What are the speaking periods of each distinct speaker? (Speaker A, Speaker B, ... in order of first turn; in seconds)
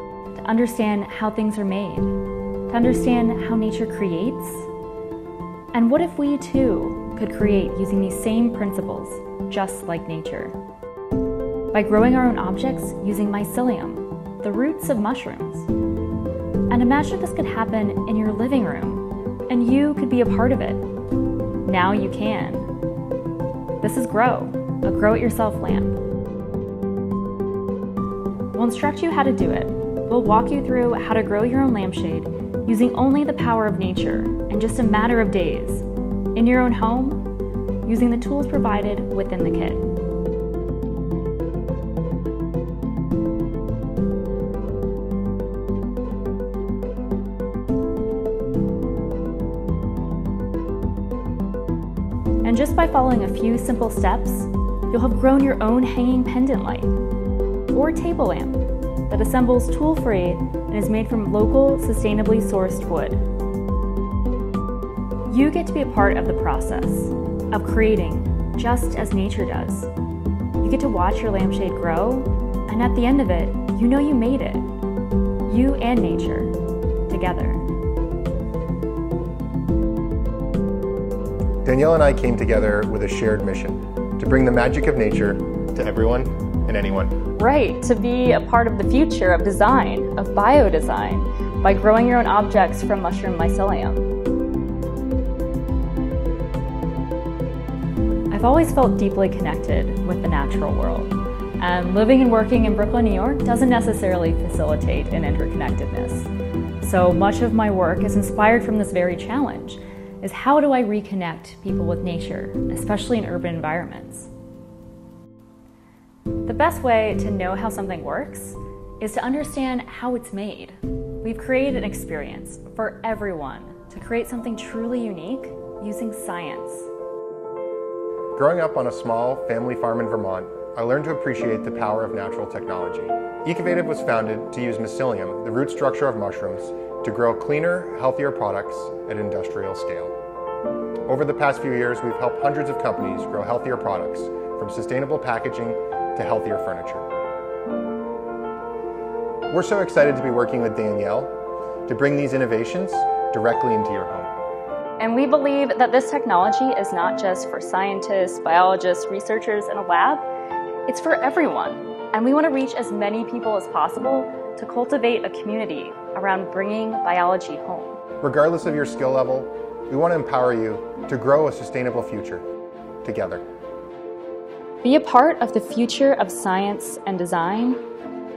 Speaker A: 0.3-4.7, 5.7-10.6, 11.7-15.7, 16.7-20.9, 21.6-22.7, 23.8-26.0, 28.5-37.3, 37.8-39.9, 52.4-56.9, 57.7-63.2, 65.2-69.9, 70.6-74.7, 75.4-76.5, 77.1-77.6, 87.3-94.1, 98.3-106.3, 106.8-114.3, 116.5-126.9, 155.0-160.2, 160.9-168.0, 174.8-177.8
Speaker B: 81.6-87.2, 128.3-140.1, 141.1-147.1, 149.5-151.3, 151.8-154.3, 168.2-172.4, 173.0-173.4